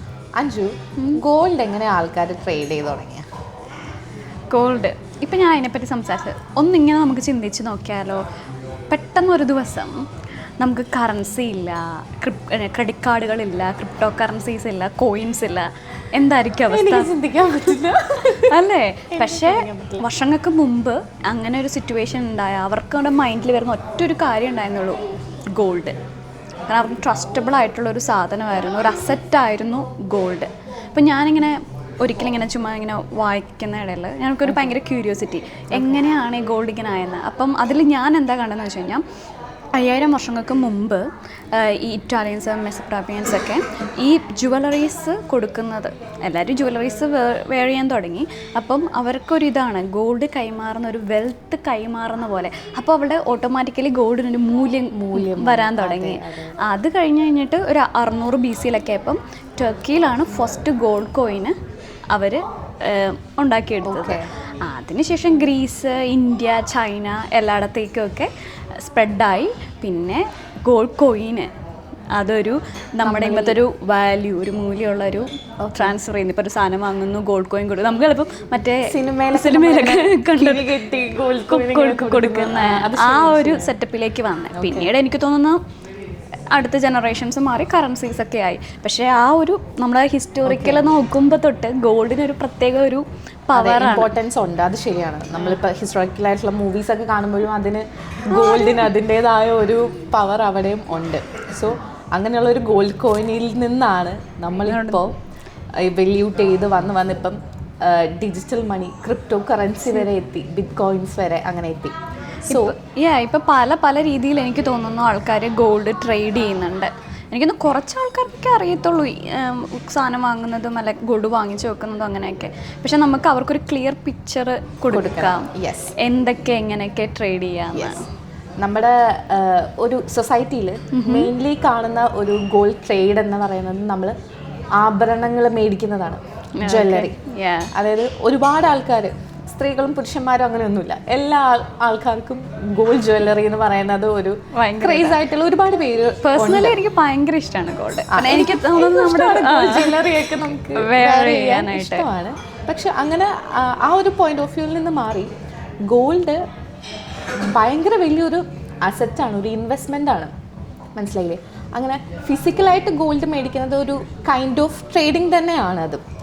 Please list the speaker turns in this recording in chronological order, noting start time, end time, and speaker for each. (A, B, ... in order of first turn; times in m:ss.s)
0:00.4-0:03.3 A
0:04.5-0:08.2 B
0:08.9-0:10.0 B
0:10.6-0:17.1 B
0:16.7-0:18.6 A
0:18.5-0:25.0 B
0:19.1-0:20.0 A
0:25.5-0:26.0 B
0:26.7-0:39.0 B
0:34.4-0:34.7 A
0:35.7-0:36.0 A
0:39.8-1:01.6 B
0:54.9-0:56.6 A
1:02.1-1:11.5 B
1:03.8-1:04.3 A
1:12.2-1:20.7 B
1:13.0-1:13.6 A
1:15.6-1:16.0 A
1:18.9-1:23.8 A
1:21.5-1:25.6 B
1:24.5-1:24.9 A
1:26.5-1:34.1 B
1:30.4-1:30.9 A
1:33.5-1:45.1 A
1:38.3-1:38.9 B
1:44.7-1:45.0 B
1:45.8-1:52.0 A
1:52.5-1:52.7 A
1:52.5-2:08.0 B
2:04.9-2:06.0 A
2:08.6-2:14.1 A
2:10.9-2:11.3 B
2:14.8-2:17.2 A
2:16.6-2:17.7 B
2:17.7-2:26.8 A
2:24.5-2:25.2 B
2:26.2-2:30.0 B
2:28.1-2:35.3 A
2:30.8-2:32.1 B
2:35.8-2:36.4 A
2:37.5-2:40.3 A
2:41.0-2:46.0 A